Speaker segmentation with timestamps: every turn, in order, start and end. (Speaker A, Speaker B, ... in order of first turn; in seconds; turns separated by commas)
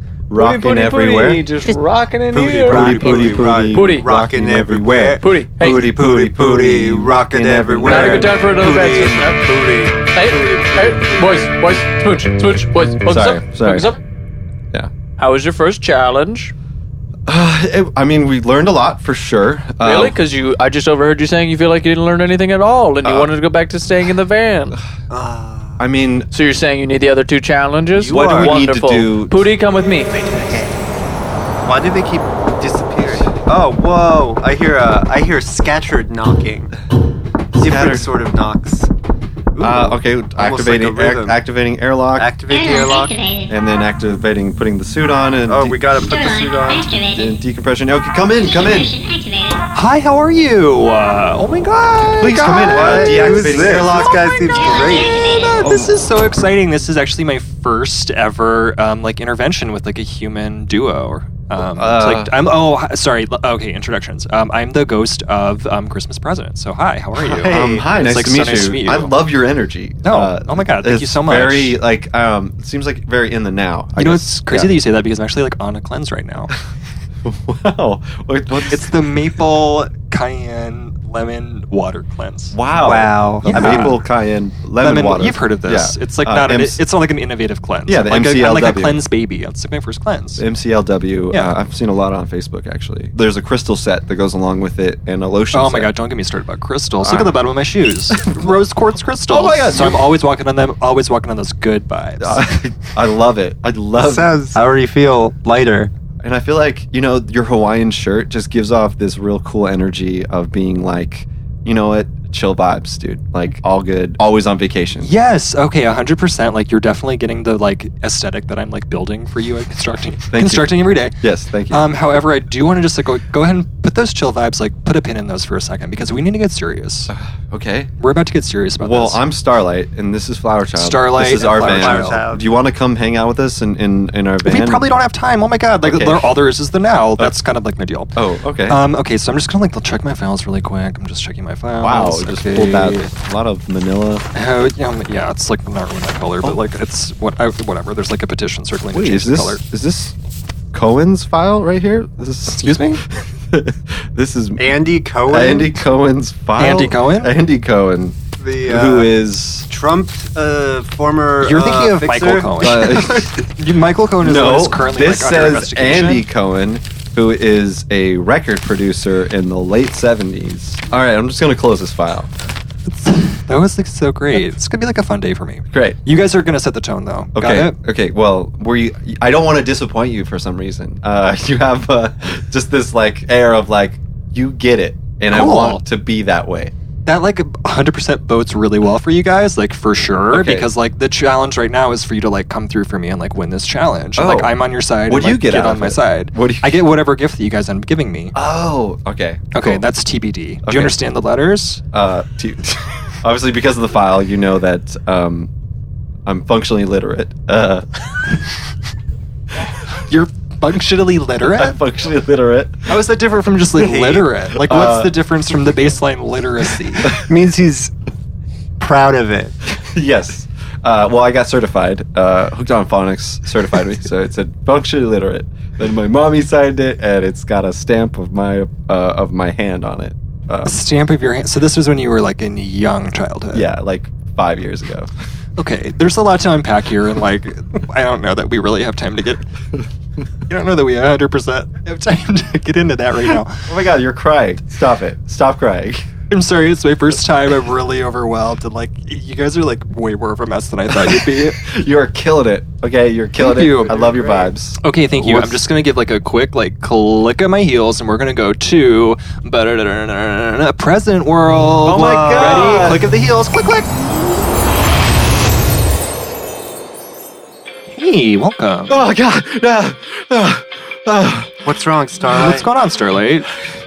Speaker A: 0.3-1.5, Speaker B: 0.3-4.1, Speaker C: 2.3-11.5, Speaker A: 2.7-8.4, Speaker B: 5.2-5.9, Speaker B: 7.8-9.4, Speaker B: 10.1-14.0, Speaker A: 13.1-13.9, Speaker B: 15.2-16.5, Speaker A: 17.3-20.2, Speaker B: 19.8-24.8, Speaker A: 23.0-23.3, Speaker C: 25.1-25.8, Speaker A: 25.8-26.3, Speaker B: 26.3-30.3, Speaker C: 28.0-28.6, Speaker A: 28.1-29.4, Speaker C: 31.6-36.8, Speaker A: 37.5-38.1, Speaker C: 37.6-38.9, Speaker C: 39.5-41.4, Speaker A: 39.6-42.3, Speaker C: 42.2-43.1, Speaker D: 42.5-43.5, Speaker A: 43.5-45.8, Speaker C: 45.5-47.0, Speaker D: 46.0-47.4, Speaker A: 47.1-48.9, Speaker D: 48.2-49.6, Speaker E: 49.7-53.9, Speaker A: 52.2-54.2, Speaker C: 52.4-55.2, Speaker D: 54.5-55.7, Speaker E: 55.3-69.2, Speaker A: 61.6-62.3, Speaker C: 67.2-67.9, Speaker A: 67.2-74.8, Speaker E: 70.0-71.8, Speaker E: 74.0-76.5, Speaker A: 77.2-78.9, Speaker E: 78.7-82.6, Speaker A: 82.5-86.8, Speaker C: 82.8-84.0, Speaker E: 83.4-84.0, Speaker E: 84.8-90.4, Speaker A: 87.9-89.0, Speaker A: 90.4-95.9, Speaker E: 91.3-91.6, Speaker E: 95.5-102.5, Speaker A: 97.0-97.3, Speaker A: 98.1-98.5, Speaker A: 99.3-100.0, Speaker A: 102.2-104.3, Speaker C: 104.0-105.9, Speaker A: 106.2-115.1, Speaker E: 115.0-121.2, Speaker A: 120.3-121.9, Speaker E: 121.7-127.1, Speaker A: 127.1-127.9, Speaker E: 128.0-129.2, Speaker A: 128.8-134.9, Speaker E: 130.7-132.2, Speaker C: 131.4-132.6, Speaker E: 134.4-143.1, Speaker A: 135.8-136.3, Speaker A: 138.2-138.8, Speaker A: 141.8-144.2, Speaker E: 144.3-149.6, Speaker A: 148.9-150.2, Speaker A: 150.7-159.7, Speaker E: 152.6-153.0, Speaker C: 154.6-155.8, Speaker E: 156.6-157.3, Speaker C: 158.4-159.1, Speaker C: 159.7-163.3, Speaker E: 161.4-166.3, Speaker A: 162.6-163.3, Speaker A: 164.2-172.3, Speaker E: 172.9-177.8, Speaker A: 175.7-176.0, Speaker A: 177.4-186.7, Speaker E: 185.3-185.8, Speaker E: 187.1-198.3, Speaker A: 190.3-190.7, Speaker A: 194.2-194.6, Speaker A: 195.1-196.8, Speaker A: 198.3-199.8, Speaker E: 199.5-201.8, Speaker A: 200.7-200.9, Speaker A: 201.9-205.5, Speaker A: 206.3-207.8, Speaker E: 210.1-211.8, Speaker A: 211.4-212.9, Speaker E: 212.9-217.2, Speaker C: 213.8-214.3, Speaker A: 214.5-215.1, Speaker C: 217.2-217.9, Speaker C: 218.8-219.6, Speaker A: 219.8-230.7, Speaker E: 230.7-233.7, Speaker A: 233.5-235.1, Speaker E: 235.6-239.4, Speaker E: 240.5-243.6, Speaker A: 243.7-246.1, Speaker E: 246.3-251.6, Speaker A: 250.9-255.6, Speaker E: 253.4-254.1, Speaker C: 254.1-254.5, Speaker E: 254.8-263.9, Speaker A: 261.8-263.1, Speaker E: 267.9-269.0, Speaker A: 268.9-271.6, Speaker C: 271.6-272.7, Speaker E: 272.3-273.5